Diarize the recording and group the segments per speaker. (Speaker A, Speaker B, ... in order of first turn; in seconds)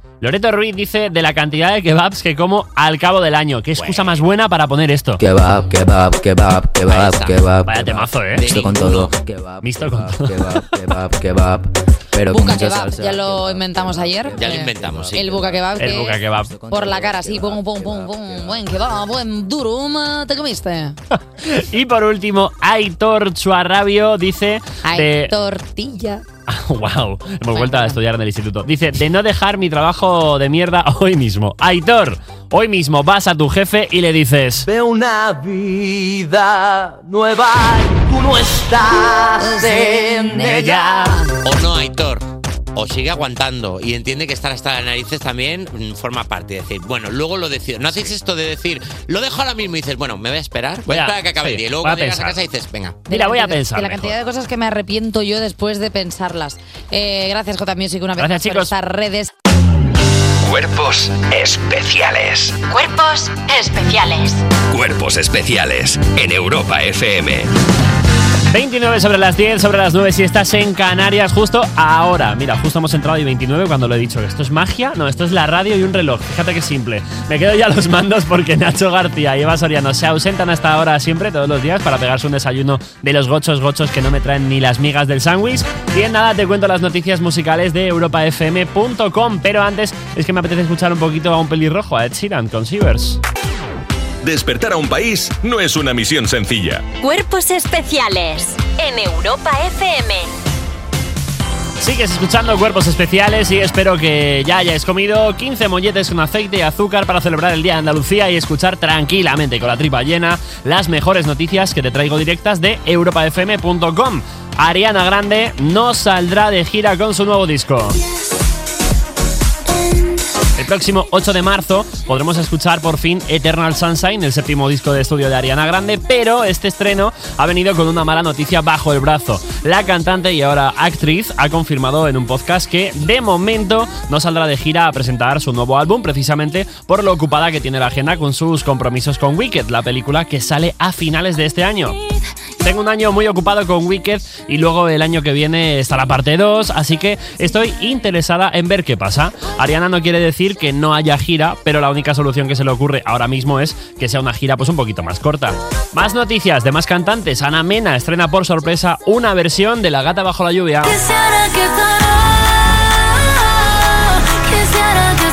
Speaker A: 0.2-5.2, 7.6-8.6, 9.6-10.6, 15.8-16.5, 21.1-25.3, 26.5-34.7, 50.9-52.4, 53.1-54.1, 58.2-58.7, 68.5-93.2, 101.8-118.0, 120.6-141.9, 142.6-161.0
Speaker B: 3.7-4.2, 6.9-7.4, 8.3-9.1, 14.3-15.4, 41.4-53.1
Speaker C: 5.2-18.9
Speaker D: 12.3-20.9, 24.8-26.2, 27.5-28.0, 39.4-41.3, 53.1-59.3
Speaker E: 34.7-41.1
Speaker F: 60.4-62.6, 64.7-67.5
Speaker G: 62.7-64.4, 97.0-100.3
Speaker H: 94.2-96.9